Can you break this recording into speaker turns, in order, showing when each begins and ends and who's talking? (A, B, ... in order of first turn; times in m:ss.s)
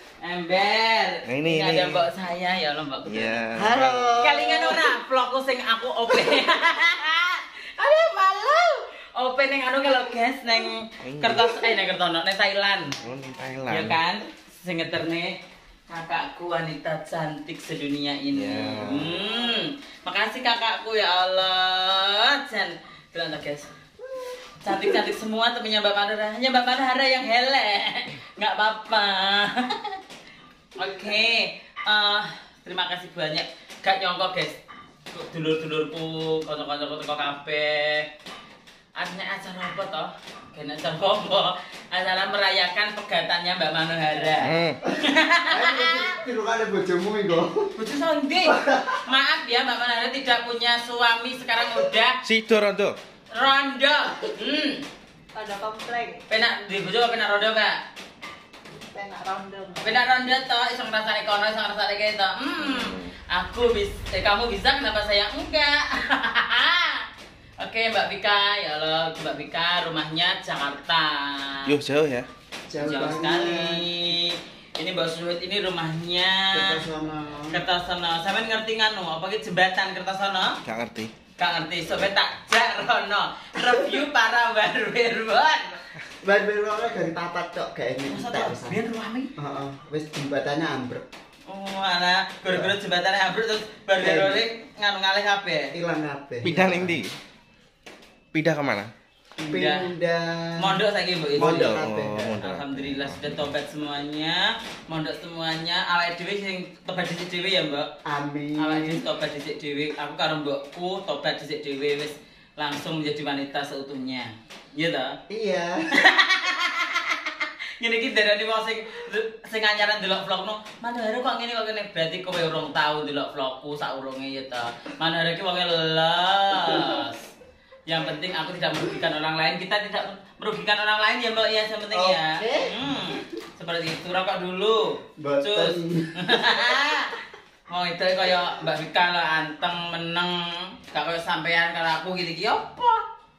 0:00.2-0:03.4 A
0:01.2-0:02.0 B
0:03.0-0:04.2 B
0:03.6-0:04.9 C
0:04.2-0:13.0 A
0:11.0-0:11.7 B
0:13.0-0:14.0 B
0:13.7-0:15.4 A
0:15.9-0:23.7 A
0:18.3-0:19.2 B
0:24.6-0:30.0 A
0:30.8-0:34.6 A
0:35.1-0:38.1 A
0:39.0-0:46.1 A
0:44.4-0:44.8 B
0:45.5-0:47.7 C
0:47.8-0:52.2 A
0:48.4-0:49.0 C
0:52.2-0:53.0 B
0:53.3-0:54.8 A
0:55.3-0:56.2 C
0:56.3-0:57.8 A
0:58.9-0:59.7 C
0:59.8-1:07.0 A
1:02.7-1:03.1 B
1:07.6-1:11.7 A
1:11.6-1:12.3 B
1:12.7-1:13.9 C
1:12.8-1:16.8 A
1:16.5-1:17.6 C
1:17.5-1:20.6 A
1:20.6-1:21.1 B
1:21.4-1:25.8 A
1:26.2-1:28.8 C
1:28.1-1:29.3 A
1:29.4-1:31.0 C
1:31.5-1:35.7 A
1:34.0-1:34.4 C
1:35.7-1:37.0 C
1:36.4-1:37.1 B
1:38.3-1:38.9 B
1:39.4-1:40.8 C
1:39.5-1:39.9 A
1:40.6-1:47.9 A
1:41.4-1:42.4 C
1:41.4-1:43.4 B
1:48.0-1:49.0 C
1:48.6-1:55.2 A
1:55.3-1:55.8 C
1:56.0-2:07.3 A
2:07.9-2:17.2 A
2:11.9-2:13.2 C
2:15.2-2:16.7 C
2:17.7-2:23.0 A